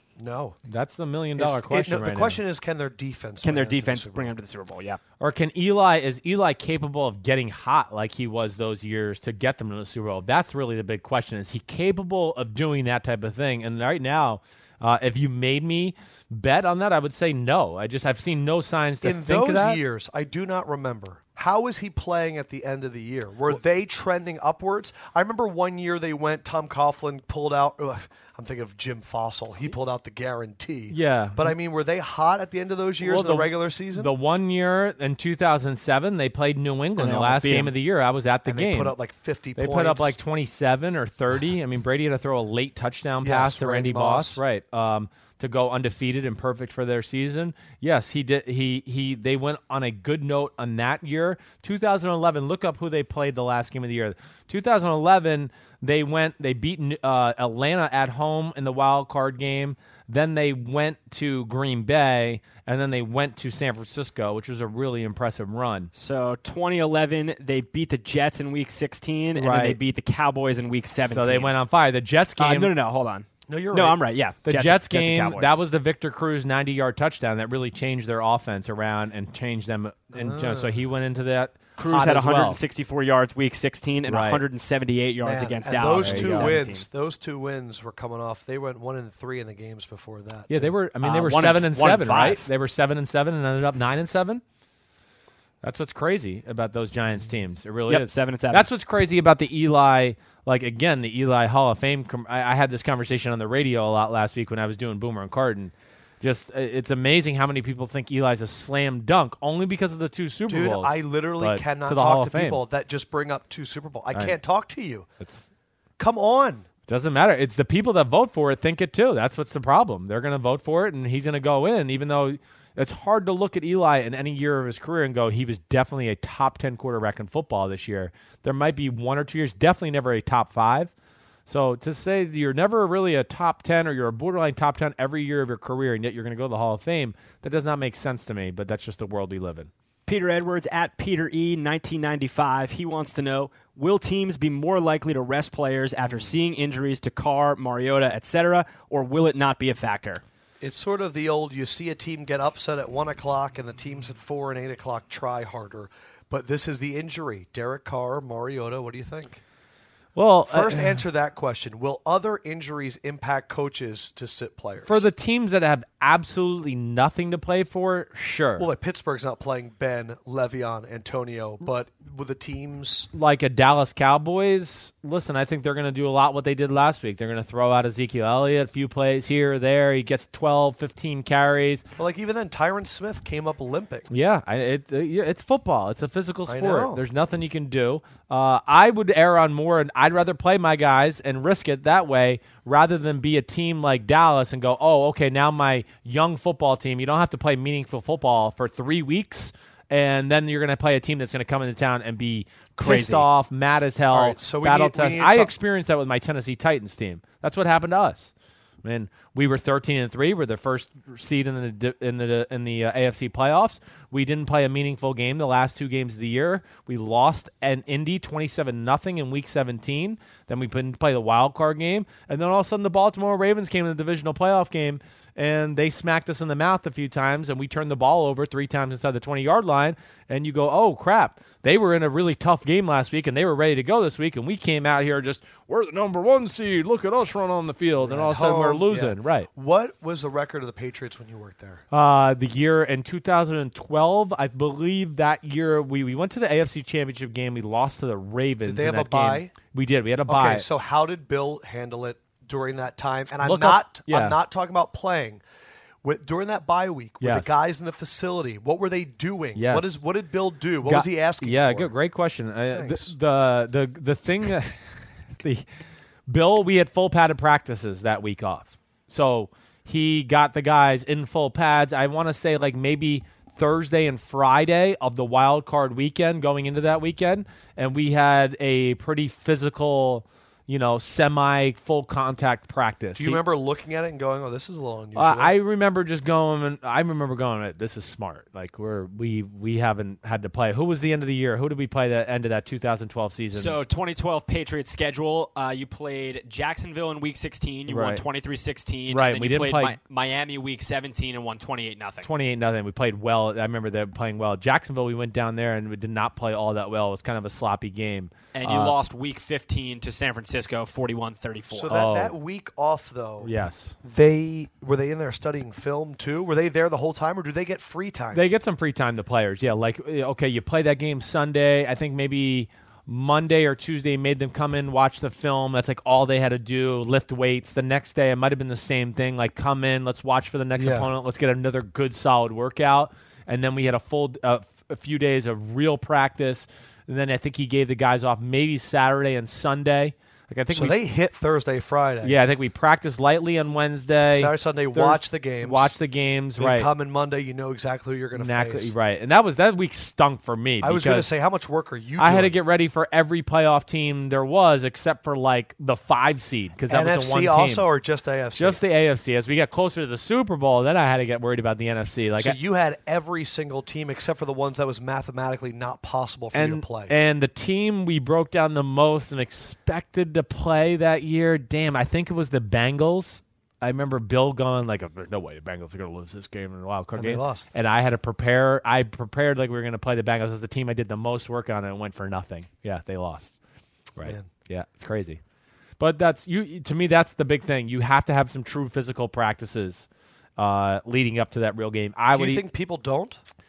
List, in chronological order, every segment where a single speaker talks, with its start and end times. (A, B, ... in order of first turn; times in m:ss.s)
0:00.2-0:00.6 A
0:00.6-0:02.4 B
0:01.4-0:04.3 A
0:03.4-0:05.0 C
0:05.2-0:19.8 B
0:19.0-0:34.1 A
0:30.9-0:31.5 B
0:33.0-0:38.9 B
0:37.0-0:37.7 C
0:38.4-0:40.2 A
0:39.6-1:05.9 B
0:43.2-0:44.4 A
1:05.9-1:11.5 C
1:09.4-1:09.8 B
1:11.1-1:12.7 B
1:12.4-1:15.6 C
1:13.5-1:14.0 A
1:14.4-1:22.6 B
1:20.1-1:20.8 A
1:21.8-1:26.8 C
1:24.1-1:24.4 B
1:25.2-1:30.7 A
1:25.9-1:26.6 B
1:30.5-1:34.4 B
1:31.0-1:32.5 C
1:35.6-1:52.6 B
1:37.9-1:38.7 C
1:50.5-1:55.0 A
1:55.2-1:55.5 B
1:56.0-1:56.6 A
1:56.9-2:10.9 B
2:11.5-2:19.7 B
2:20.1-2:30.2 C
2:30.6-2:39.4 A
2:40.1-2:41.0 B
2:40.5-2:45.0 A
2:44.8-2:48.7 B
2:48.6-2:53.1 A
2:53.1-3:01.8 B
3:02.0-3:04.1 A
3:04.1-3:28.3 B
3:06.5-3:07.0 A
3:22.8-3:23.3 C
3:24.1-3:25.5 A
3:28.8-3:59.5 B
3:58.0-4:01.8 A
4:01.9-4:10.7 B
4:08.6-4:09.5 A
4:10.3-4:15.4 A
4:13.4-4:14.4 B
4:16.0-4:21.9 A
4:17.2-4:17.5 B
4:19.5-4:20.0 B
4:20.8-4:24.8 B
4:22.7-4:23.1 A
4:25.4-4:25.6 B
4:26.3-4:43.4 B
4:43.1-4:45.5 A
4:45.2-4:53.8 B
4:53.5-5:02.3 C
4:57.9-4:58.2 B
4:59.1-5:00.0 B
5:02.2-5:09.0 B
5:08.5-5:11.9 C
5:11.7-5:13.5 A
5:11.9-5:12.3 B
5:13.4-5:14.0 B
5:14.0-5:18.4 A
5:18.3-5:40.9 B
5:30.8-5:31.1 A
5:40.7-5:42.4 A
5:42.2-5:46.9 B
5:44.3-5:45.9 A
5:46.6-5:48.9 A
5:48.3-5:51.3 B
5:50.8-5:52.5 A
5:52.2-5:57.8 B
5:56.9-5:58.8 A
5:58.6-6:02.6 B
6:02.4-6:07.1 A
6:06.5-6:23.5 B
6:17.2-6:17.7 A
6:24.2-6:25.4 B
6:24.2-6:24.5 A
6:26.0-6:32.6 B
6:32.3-6:33.4 A